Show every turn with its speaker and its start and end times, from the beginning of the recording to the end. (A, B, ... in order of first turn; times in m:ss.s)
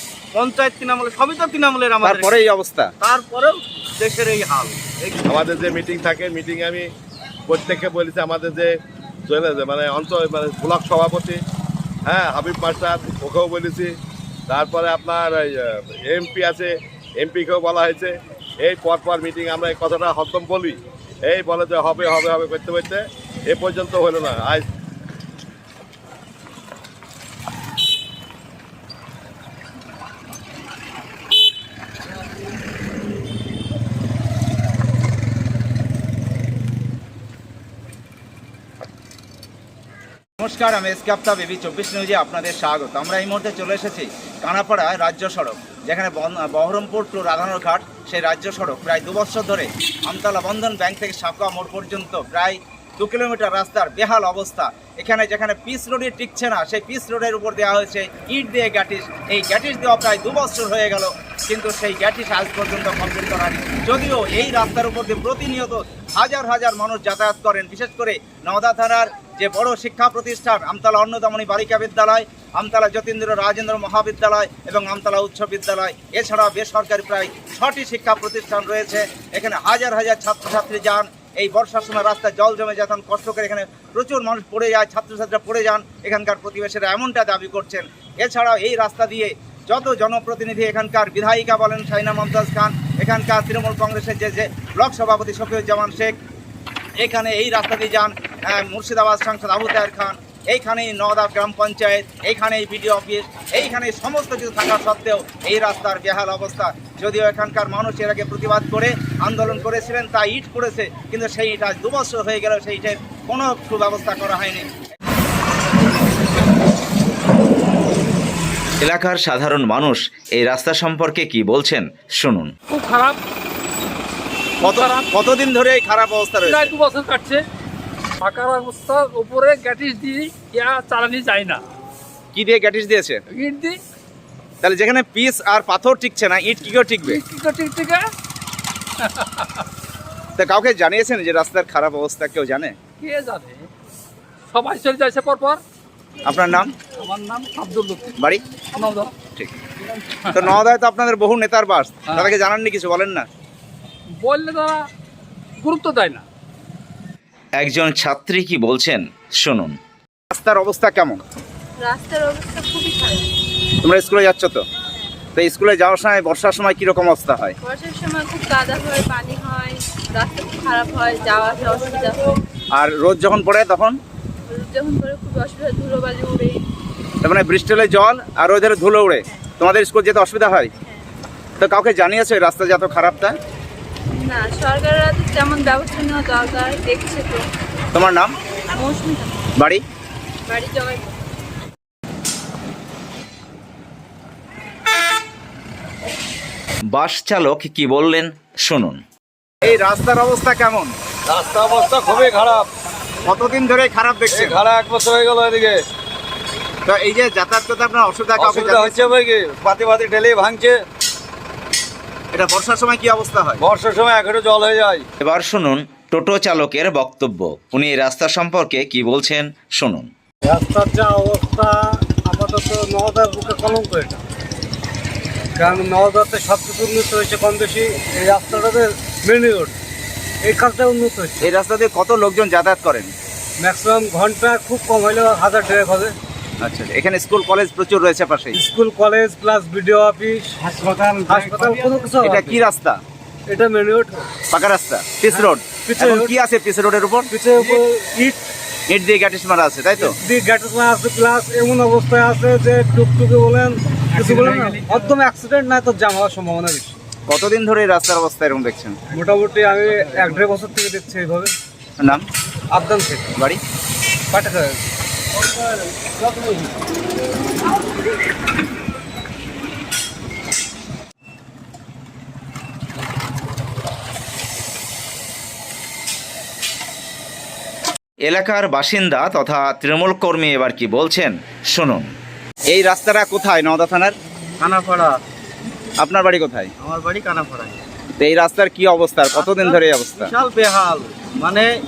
0:00.3-0:02.4 A
0:02.0-0:02.4 B
0:03.0-0:05.2 A
0:05.3-0:06.9 C
0:07.5-0:08.7 C
0:09.3-0:11.4 C
0:12.1-0:13.9 C
0:14.5-0:24.7 C
0:40.4-1:36.2 B
1:37.0-1:54.7 B
1:58.8-2:02.5 D
2:02.7-2:03.2 E
2:04.6-2:05.1 E
2:04.6-2:06.7 B
2:06.4-2:07.4 E
2:08.2-2:11.6 E
2:12.4-2:13.2 B
2:13.3-2:13.8 E
2:14.6-2:17.2 B
2:17.0-2:18.1 E
2:19.0-2:19.6 E
2:20.4-2:22.8 B
2:23.0-2:23.7 E
2:24.5-2:25.6 E
2:26.3-2:26.7 B
2:27.0-2:28.1 E
2:28.7-2:29.1 E
2:30.2-2:30.5 E
2:30.3-2:33.3 B
2:34.2-2:34.9 E
2:35.6-2:36.2 E
2:37.6-2:39.8 D
2:40.3-2:41.2 B
2:41.8-2:43.2 F
2:43.8-2:44.6 B
2:45.4-2:47.6 B
2:47.6-2:52.3 F
2:52.8-2:54.0 B
2:54.5-2:56.6 F
2:57.2-3:00.7 B
3:01.6-3:03.4 B
3:04.2-3:07.4 F
3:07.9-3:08.3 B
3:08.7-3:09.4 F
3:10.5-3:11.3 F
3:16.9-3:19.0 D
3:19.6-3:20.9 B
3:21.3-3:22.7 G
3:23.3-3:24.6 B
3:24.3-3:25.8 G
3:26.9-3:29.2 B
3:28.4-3:30.8 G
3:32.3-3:33.6 B
3:33.6-3:35.1 G
3:35.2-3:40.1 D
3:40.4-3:44.2 H
3:45.6-3:49.7 H
3:50.4-3:51.4 H
3:51.4-3:53.1 B
3:53.6-3:56.2 H
3:56.6-3:58.6 B
3:58.5-4:02.6 H
4:02.2-4:03.0 B
4:03.5-4:04.2 H
4:04.5-4:07.3 B
4:05.4-4:06.4 H
4:07.3-4:08.4 H
4:08.9-4:10.2 B
4:10.0-4:16.9 H
4:14.1-4:15.2 E
4:17.3-4:19.0 B
4:19.1-4:21.5 H
4:22.7-4:23.3 H
4:24.3-4:24.8 H
4:38.2-4:42.1 D
4:42.7-4:44.2 B
4:44.6-4:45.2 A
4:46.0-4:46.7 B
4:46.8-4:47.8 A
4:48.2-4:50.3 B
4:49.3-4:51.7 A